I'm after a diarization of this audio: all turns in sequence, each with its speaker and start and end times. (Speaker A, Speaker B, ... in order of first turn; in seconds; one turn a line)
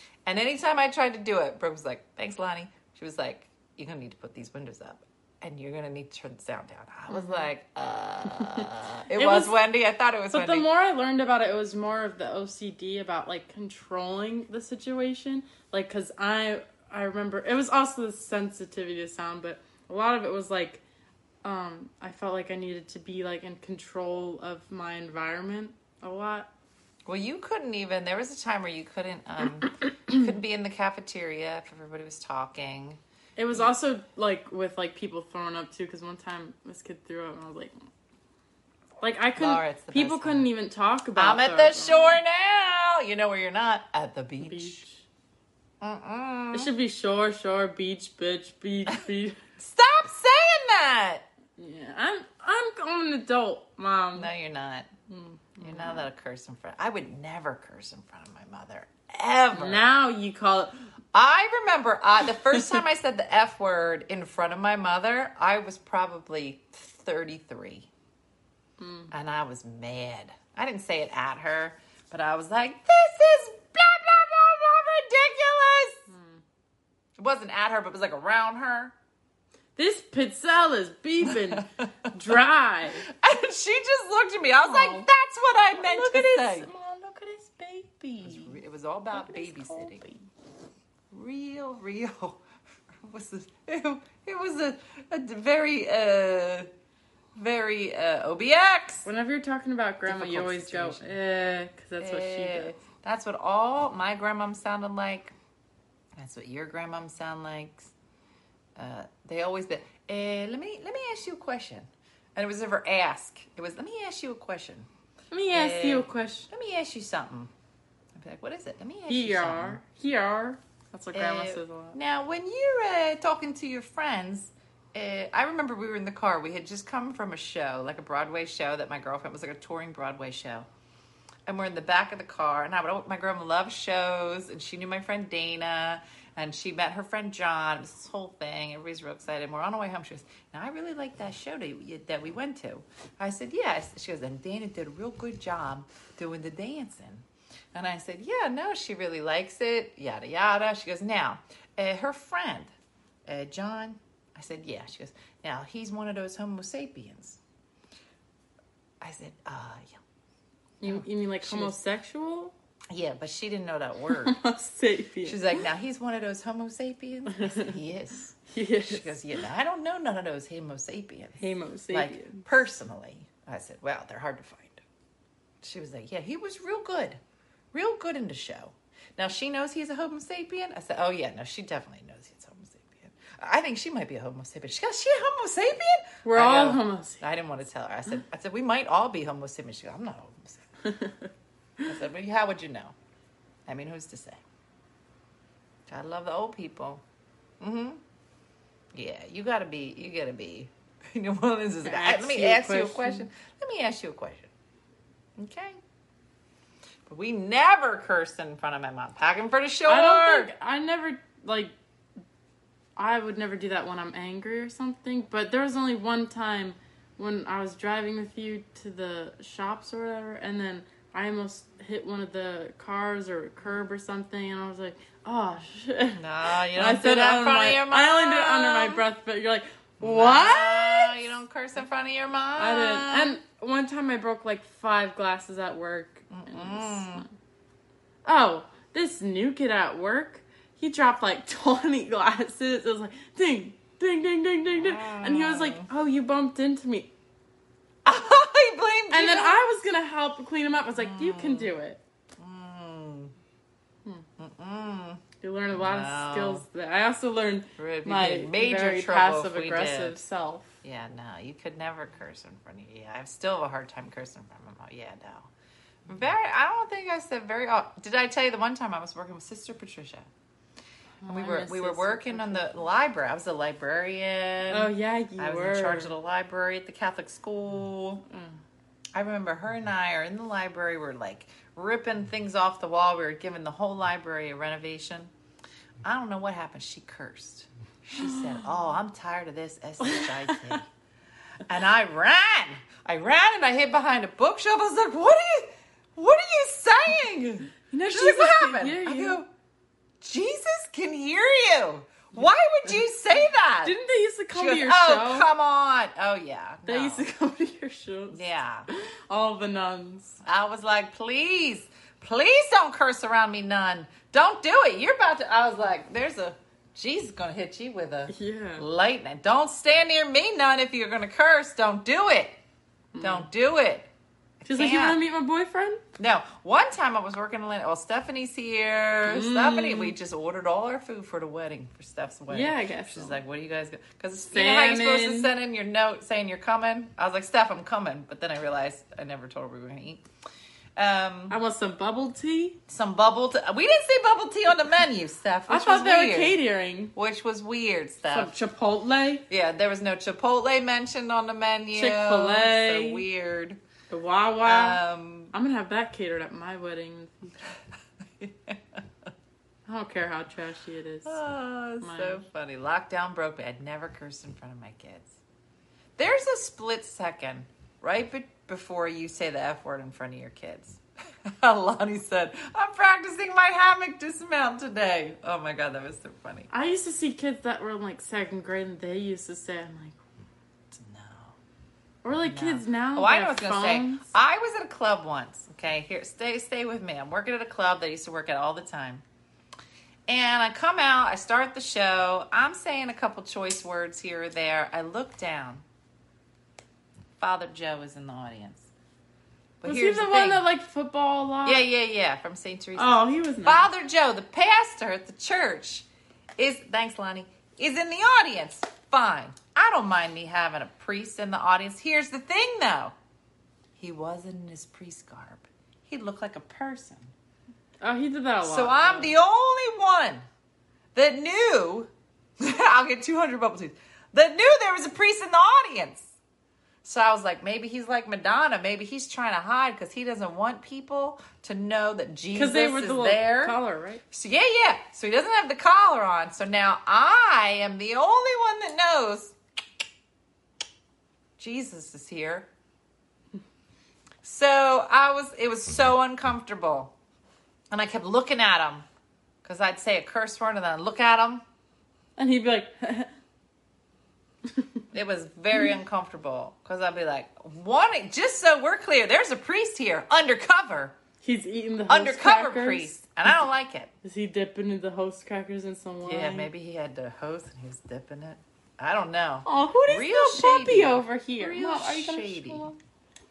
Speaker A: 0.3-10.7
Speaker B: 7.1-7.5
Speaker B: 8.4-9.6
Speaker B: 10.3-20.8
Speaker B: 21.4-26.5
Speaker A: 27.1-33.0
Speaker B: 33.4-37.8
Speaker B: 39.0-42.2
Speaker A: 39.4-40.5
Speaker A: 41.2-44.8
Speaker B: 44.4-45.0
Speaker A: 45.8-46.7
Speaker B: 46.5-49.4
Speaker A: 49.6-51.3
Speaker B: 51.6-54.3
Speaker A: 54.1-54.9
Speaker B: 55.1-56.1
Speaker A: 55.6-59.8
Speaker B: 59.5-60.9
Speaker A: 61.1-67.9
Speaker B: 68.8-69.1
Speaker A: 69.1-76.0
Speaker B: 76.1-76.4
Speaker A: 77.2-78.9
Speaker B: 79.8-83.0
Speaker A: 81.2-82.4
Speaker A: 83.0-86.7
Speaker B: 84.6-85.1
Speaker B: 85.8-88.6
Speaker A: 88.2-90.0
Speaker B: 89.1-90.3
Speaker A: 91.1-92.4
Speaker A: 93.0-96.7
Speaker A: 97.4-99.1
Speaker B: 99.0-102.8
Speaker A: 100.1-101.2
Speaker A: 102.0-105.3
Speaker A: 106.2-107.9
Speaker A: 108.8-114.9
Speaker B: 115.3-116.5
Speaker A: 115.5-117.5
Speaker A: 118.2-119.8
Speaker B: 119.1-122.0
Speaker A: 121.1-130.7
Speaker A: 131.5-152.7
Speaker A: 153.3-157.4
Speaker A: 159.0-160.0
Speaker B: 160.8-162.5
Speaker A: 160.8-161.8
Speaker A: 162.9-164.4
Speaker B: 164.2-165.6
Speaker A: 165.2-174.8
Speaker B: 167.3-167.7
Speaker B: 168.5-169.1
Speaker B: 171.4-172.5
Speaker A: 175.6-177.2
Speaker A: 177.7-190.7
Speaker B: 186.2-187.2
Speaker B: 190.8-191.3
Speaker A: 191.9-192.9
Speaker A: 193.7-194.4
Speaker A: 195.9-197.0
Speaker A: 197.6-198.0
Speaker A: 198.9-204.5
Speaker B: 201.8-203.3
Speaker A: 205.4-205.8
Speaker A: 207.1-210.5
Speaker B: 209.9-211.7
Speaker B: 213.0-231.3
Speaker A: 226.2-229.0
Speaker A: 230.0-233.4
Speaker B: 232.6-237.3
Speaker A: 236.3-237.2
Speaker B: 238.2-247.1
Speaker A: 244.7-245.9
Speaker A: 248.1-249.6
Speaker B: 249.1-252.0
Speaker A: 251.0-251.7
Speaker A: 252.4-253.3
Speaker A: 254.4-256.6
Speaker B: 255.4-260.8
Speaker A: 257.8-260.2
Speaker A: 260.8-265.5
Speaker A: 266.1-270.3
Speaker B: 271.2-272.8
Speaker A: 271.3-278.2
Speaker B: 274.7-276.1
Speaker B: 278.3-278.6
Speaker A: 279.1-285.3
Speaker A: 286.0-290.9
Speaker B: 290.1-290.8
Speaker A: 291.7-299.5
Speaker B: 297.9-299.4
Speaker A: 300.2-304.0
Speaker B: 303.8-305.5
Speaker A: 304.5-307.2
Speaker B: 306.9-310.4
Speaker A: 308.3-308.9
Speaker A: 310.4-322.6
Speaker B: 318.3-318.9
Speaker B: 323.1-323.5
Speaker A: 323.2-325.2
Speaker B: 324.7-326.0
Speaker A: 326.2-340.2
Speaker B: 329.2-330.1
Speaker B: 332.5-333.4
Speaker B: 334.5-335.5
Speaker A: 341.0-341.6
Speaker B: 341.5-342.8
Speaker A: 342.9-346.6
Speaker B: 345.7-347.1
Speaker A: 347.1-348.6
Speaker B: 348.3-349.4
Speaker A: 349.5-353.8
Speaker B: 351.9-353.2
Speaker B: 354.1-355.0
Speaker A: 354.6-355.5
Speaker B: 355.5-357.6
Speaker A: 358.4-359.3
Speaker B: 359.9-361.4
Speaker A: 361.2-365.4
Speaker B: 362.0-362.4
Speaker A: 366.2-376.7
Speaker B: 376.7-380.2
Speaker A: 380.9-381.6
Speaker B: 382.2-384.3
Speaker A: 382.3-389.2
Speaker A: 390.3-395.8
Speaker A: 397.4-398.9
Speaker A: 399.8-400.6
Speaker B: 399.9-401.8
Speaker A: 401.6-406.1
Speaker B: 403.0-403.9
Speaker A: 406.6-413.1
Speaker A: 414.0-417.3
Speaker B: 418.0-419.3
Speaker A: 418.6-420.5
Speaker A: 421.1-426.4
Speaker A: 427.0-433.8
Speaker B: 432.5-434.2
Speaker A: 434.3-439.6
Speaker A: 441.6-442.7
Speaker A: 444.4-447.1
Speaker A: 447.9-449.1
Speaker A: 449.6-451.6
Speaker B: 452.4-453.3
Speaker B: 454.7-455.0
Speaker A: 455.1-461.1
Speaker B: 461.4-463.1
Speaker A: 462.1-464.1
Speaker B: 464.2-466.7
Speaker A: 466.2-472.9
Speaker B: 469.6-473.0